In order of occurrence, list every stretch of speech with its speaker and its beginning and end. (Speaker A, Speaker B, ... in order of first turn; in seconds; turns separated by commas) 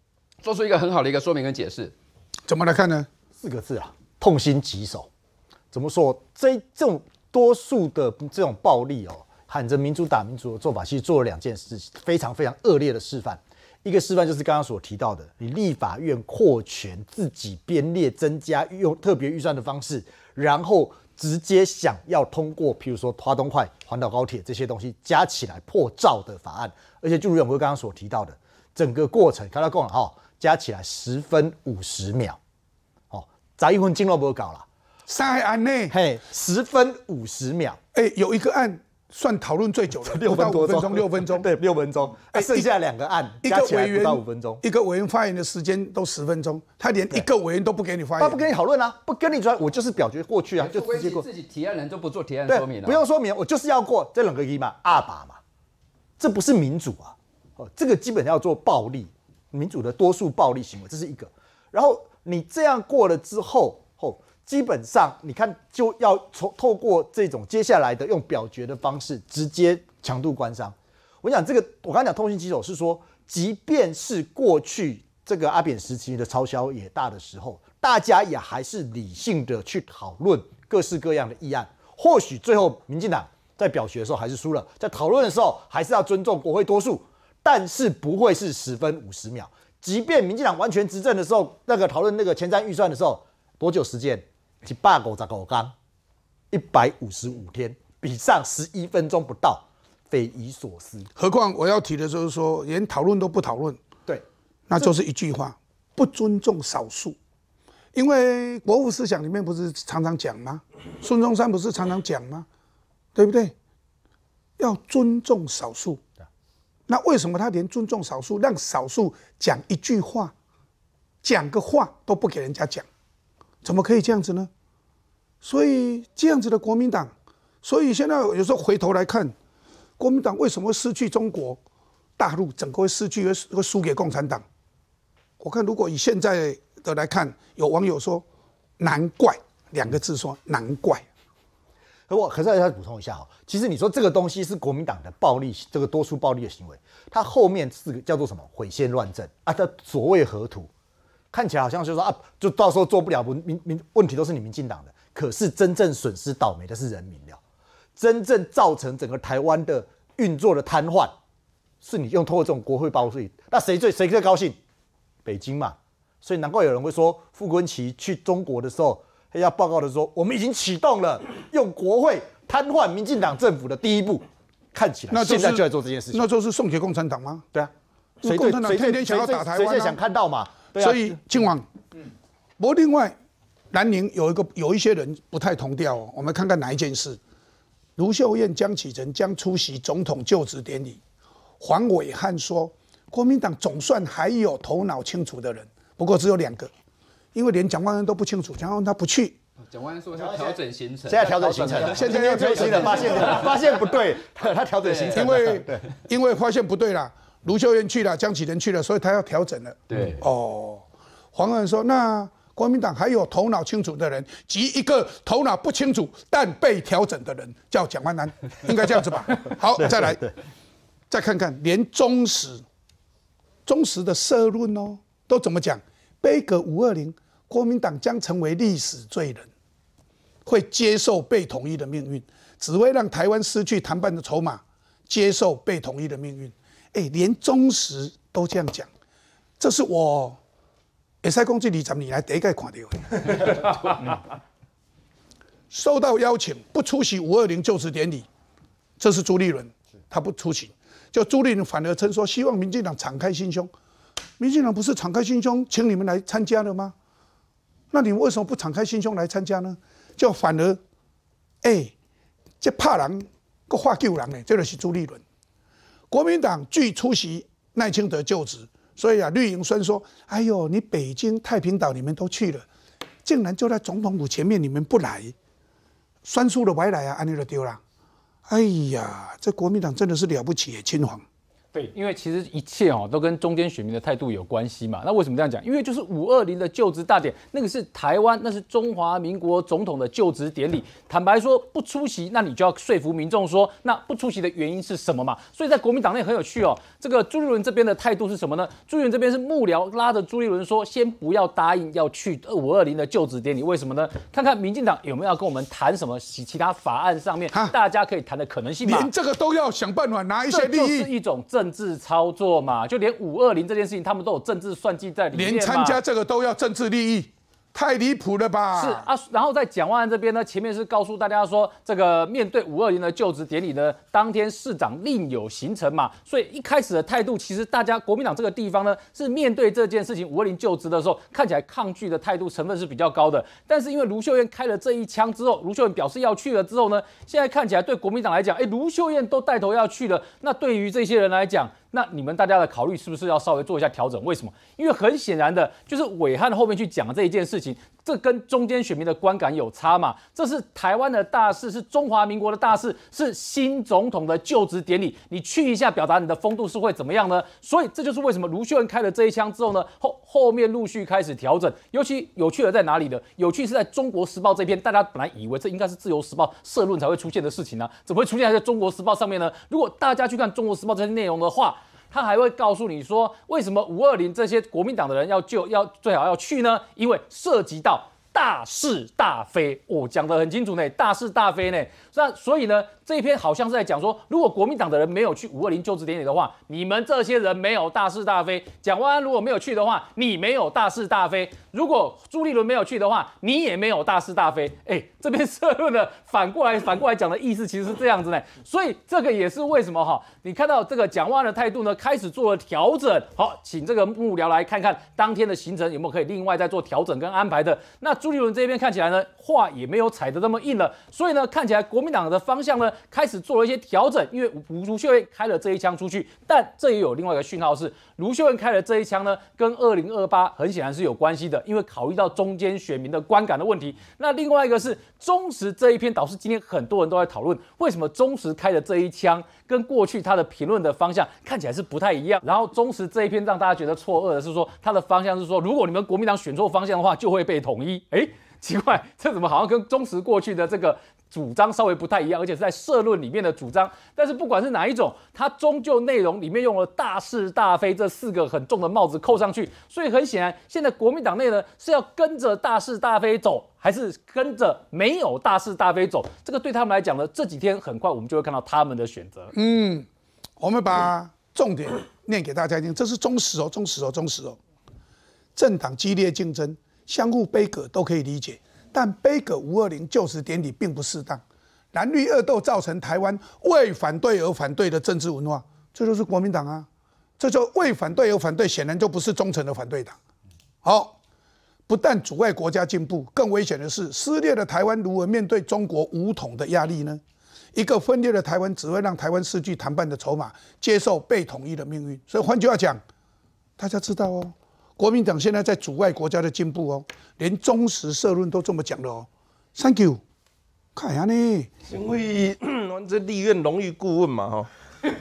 Speaker A: 0.4-1.9, Speaker B: 2.5-3.1, Speaker C: 3.4-5.1, Speaker C: 5.7-32.4, Speaker C: 33.1-34.6, Speaker B: 35.1-36.0, Speaker C: 35.9-37.8, Speaker B: 37.9-41.5, Speaker C: 40.0-44.6, Speaker B: 42.3-42.7, Speaker B: 43.4-48.5, Speaker C: 48.2-51.3, Speaker A: 50.6-53.0, Speaker C: 52.5-55.4, Speaker C: 56.2-95.7, Speaker C: 96.5-101.1, Speaker B: 101.2-103.8, Speaker B: 104.7-107.2, Speaker B: 107.9-112.5, Speaker B: 113.1-113.5, Speaker B: 114.6-116.0, Speaker B: 116.9-120.3, Speaker B: 121.2-122.8, Speaker B: 123.6-124.5, Speaker B: 125.4-127.1, Speaker B: 127.6-129.3, Speaker B: 130.0-131.6, Speaker B: 132.2-134.4, Speaker B: 135.4-138.2, Speaker B: 138.8-141.1, Speaker C: 142.1-150.7, Speaker C: 151.3-157.4, Speaker C: 158.0-161.1, Speaker C: 161.8-164.6, Speaker C: 165.2-176.3, Speaker B: 175.1-177.5, Speaker C: 177.5-181.3, Speaker B: 178.2-180.0, Speaker B: 180.8-181.7, Speaker B: 182.6-183.1, Speaker B: 183.7-187.2, Speaker B: 188.0-191.0, Speaker B: 191.6-196.7, Speaker B: 197.3-199.4, Speaker A: 199.7-203.7, Speaker C: 200.1-205.8, Speaker B: 201.8-202.5, Speaker A: 204.8-205.3, Speaker B: 205.1-220.2, Speaker A: 209.9-210.2, Speaker C: 219.8-220.3, Speaker B: 221.1-222.6, Speaker B: 223.7-229.5, Speaker B: 230.4-238.9, Speaker B: 239.6-240.4, Speaker B: 241.2-243.9, Speaker B: 245.7-248.3, Speaker B: 249.0-253.7, Speaker B: 254.4-256.9, Speaker B: 257.9-260.8, Speaker B: 261.6-261.9, Speaker B: 262.6-265.2, Speaker B: 266.1-272.7, Speaker B: 273.2-275.3, Speaker B: 276.2-277.8, Speaker B: 278.5-281.2, Speaker D: 281.7-309.1, Speaker B: 308.8-311.1, Speaker D: 310.5-316.0, Speaker B: 315.3-319.1, Speaker D: 318.7-459.5, Speaker B: 459.5-460.1, Speaker B: 460.6-464.6, Speaker B: 465.6-471.4, Speaker B: 471.9-476.9, Speaker B: 477.4-480.1, Speaker B: 480.8-481.1, Speaker B: 481.9-487.2, Speaker B: 487.7-493.0, Speaker B: 493.8-500.2, Speaker B: 500.9-501.7, Speaker E: 501.9-504.7